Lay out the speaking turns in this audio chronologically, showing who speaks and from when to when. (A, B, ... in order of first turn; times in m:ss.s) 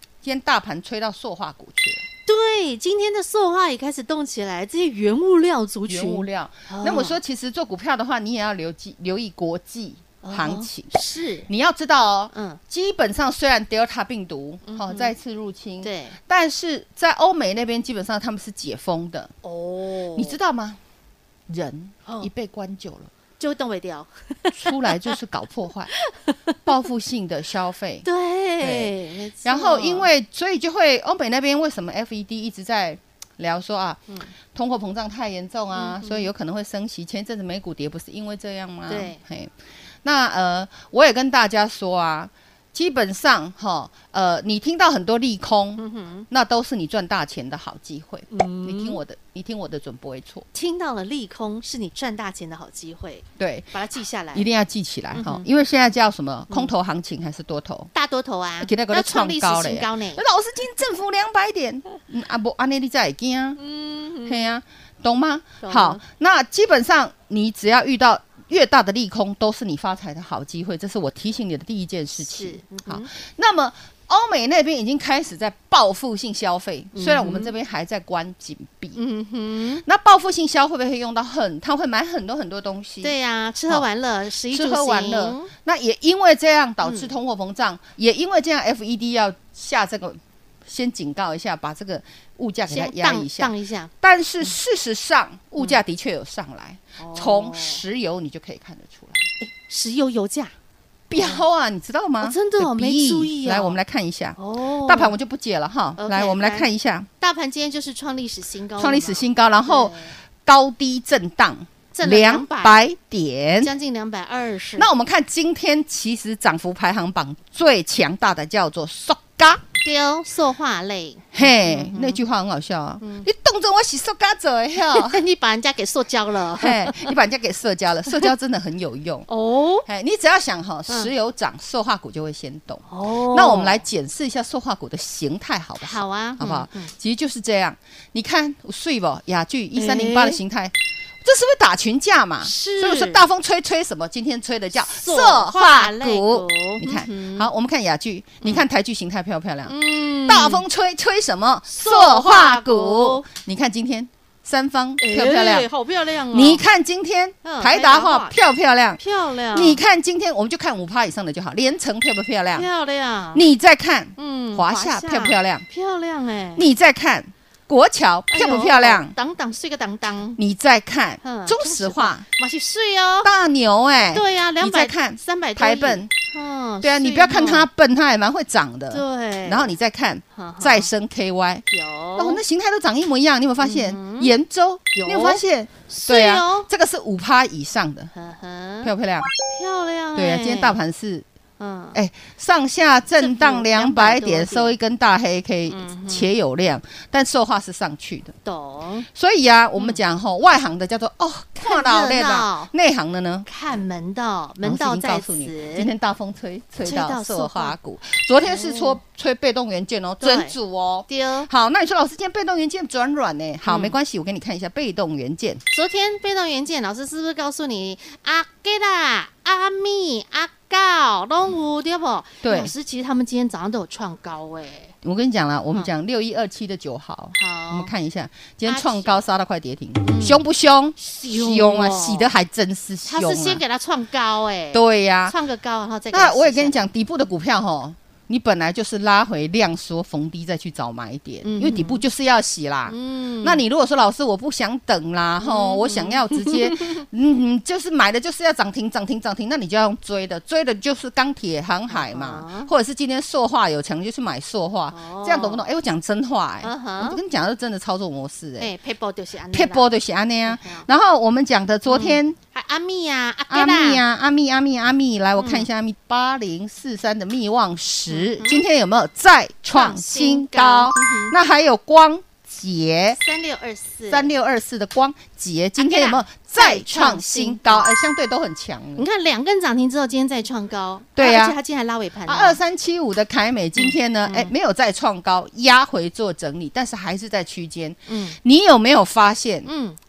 0:00.2-0:02.0 A
0:02.3-0:07.2 B
0:05.9-0:19.3 A
0:10.2-0:11.5 B
0:12.3-0:12.6 B
0:14.7-0:15.1 B
0:15.8-0:16.2 B
0:19.4-0:20.4 B
0:20.2-0:20.8 A
0:21.5-0:23.1 A
0:23.4-0:25.2 B
0:24.5-0:25.9 A
0:25.9-0:26.5 B
0:26.6-0:28.0 A
0:28.0-0:30.1 B
0:28.6-0:39.5 A
0:35.7-0:36.3 B
0:38.9-0:39.2 B
0:40.0-0:50.5 A
0:45.8-0:46.3 B
0:48.3-0:49.0 B
0:50.5-0:54.5 B
0:53.4-0:53.7 A
0:54.3-0:57.9 A
0:55.1-0:55.5 B
0:57.9-1:00.2 B
0:58.6-1:03.6 A
1:03.6-1:04.5 B
1:04.2-1:19.0 A
1:05.6-1:06.0 B
1:12.2-1:13.1 B
1:16.9-1:17.5 B
1:19.0-1:19.8 B
1:19.8-1:23.2 A
1:23.0-1:25.5 B
1:24.5-1:39.3 A
1:26.8-1:27.1 B
1:32.7-1:33.9 B
1:37.0-1:37.8 B
1:39.4-1:40.5 B
1:41.1-1:47.1 A
1:41.2-1:41.4 B
1:42.2-1:43.8 B
1:44.4-1:45.1 B
1:46.0-1:46.7 B
1:47.2-1:50.1 B
1:48.8-1:53.7 A
1:51.9-1:52.9 B
1:53.6-1:54.9 B
1:54.8-1:59.6 A
1:59.8-2:02.2 B
2:01.3-2:05.2 A
2:03.0-2:03.3 B
2:04.8-2:07.1 B
2:06.6-2:09.3 A
2:09.3-2:09.9 B
2:09.8-2:29.8 A
2:12.9-2:13.8 B
2:15.8-2:16.9 B
2:19.8-2:20.4 B
2:22.4-2:23.2 B
2:24.8-2:27.5 B
2:29.7-2:30.6 B
2:30.3-2:35.7 A
2:31.7-2:33.2 B
2:35.0-2:36.6 B
2:36.3-2:42.7 A
2:37.4-2:38.4 B
2:39.0-2:39.8 B
2:42.5-2:43.4 B
2:43.3-2:45.6 A
2:44.2-2:46.7 B
2:46.6-2:49.2 A
2:48.3-2:50.4 B
2:50.4-2:52.3 A
2:51.2-2:53.3 B
2:53.2-2:56.1 A
2:54.1-2:57.7 B
2:56.8-3:08.1 A
2:58.9-2:59.7 B
3:00.3-3:00.9 B
3:01.7-3:02.4 B
3:03.6-3:04.3 B
3:04.9-3:06.7 B
3:08.1-3:08.9 B
3:08.8-3:09.3 A
3:09.5-3:10.8 B
3:10.2-3:11.3 A
3:11.6-3:12.0 B
3:11.9-3:18.3 A
3:13.2-3:14.8 B
3:15.7-3:16.3 B
3:18.4-3:19.1 B
3:19.1-3:23.5 A
3:21.6-3:22.7 B
3:23.5-3:25.9 B
3:24.6-3:35.6 A
3:26.8-3:27.8 B
3:28.4-3:29.0 B
3:30.2-3:30.6 B
3:31.1-3:31.5 B
3:33.7-3:34.0 B
3:35.7-3:44.9 B
3:42.4-3:42.7 A
3:45.0-3:53.6 A
3:47.3-3:47.9 B
3:48.6-3:49.2 B
3:50.0-3:50.4 B
3:51.0-3:52.3 B
3:53.0-3:56.8 B
3:54.7-3:55.4 A
3:56.1-4:18.7 A
4:01.4-4:02.0 B
4:02.9-4:03.6 B
4:05.4-4:07.0 B
4:11.9-4:12.7 B
4:14.9-4:15.6 B
4:16.6-4:17.2 B
4:18.6-4:19.9 B
4:19.5-4:22.4 A
4:20.5-4:20.9 B
4:21.9-4:24.0 B
4:23.5-4:33.2 A
4:25.4-4:25.7 B
4:28.1-4:28.6 B
4:29.7-4:31.3 B
4:33.1-4:34.3 B
4:34.1-4:39.1 A
4:35.8-4:37.9 B
4:39.0-4:42.6 B
4:41.2-4:41.6 A
4:42.3-4:49.7 A
4:43.8-4:44.5 B
4:48.1-4:48.4 B
4:49.6-4:50.0 B